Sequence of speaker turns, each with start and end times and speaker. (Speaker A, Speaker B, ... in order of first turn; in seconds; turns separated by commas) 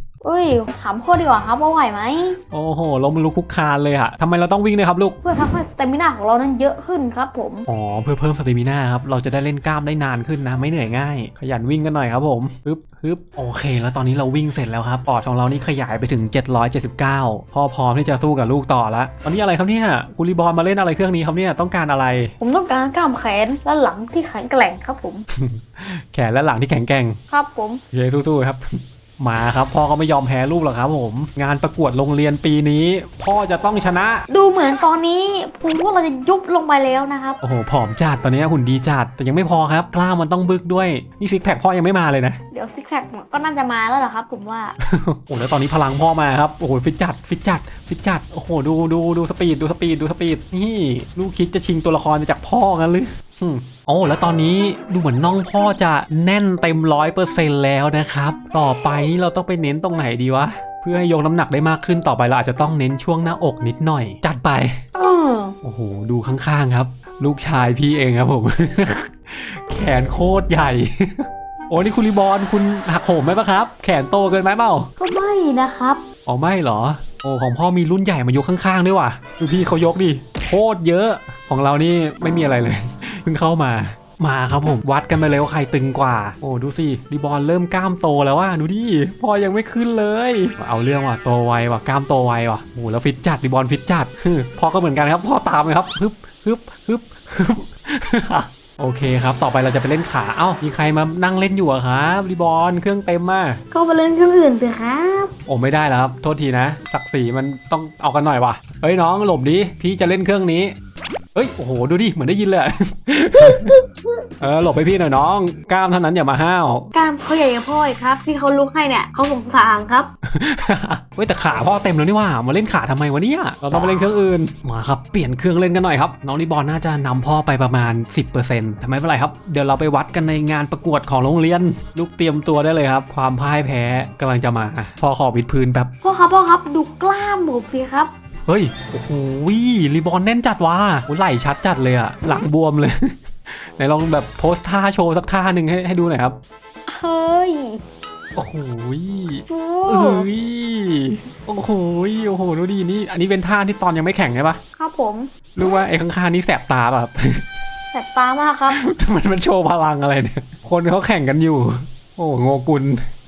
Speaker A: 0.2-2.4, Speaker B: 2.5-5.2, Speaker A: 5.2-7.7, Speaker B: 7.7-22.3, Speaker A: 22.4-25.2, Speaker B: 25.3-27.2, Speaker A: 27.3-27.8, Speaker B: 27.9-34.2, Speaker A: 34.3-37.4, Speaker B: 37.4-42.4, Speaker A: 42.5-44.8, Speaker B: 44.8-64.8, Speaker A: 64.9-65.5, Speaker B: 65.6-74.9, Speaker A: 75.0-76.0, Speaker B: 76.2-103.6, Speaker A: 103.7-105.3, Speaker B: 105.5-110.7, Speaker B: 111.3-113.7, Speaker A: 113.3-114.2, Speaker B: 114.4-116.9, Speaker A: 116.9-120.1, Speaker B: 120.2-135.9, Speaker A: 136.0-138.1, Speaker B: 138.5-146.3, Speaker A: 146.9-147.8, Speaker B: 148.3-154.6, Speaker A: 149.5-150.3, Speaker A: 154.8-155.3, Speaker B: 155.6-157.4, Speaker A: 157.9-158.8, Speaker B: 158.7-163.0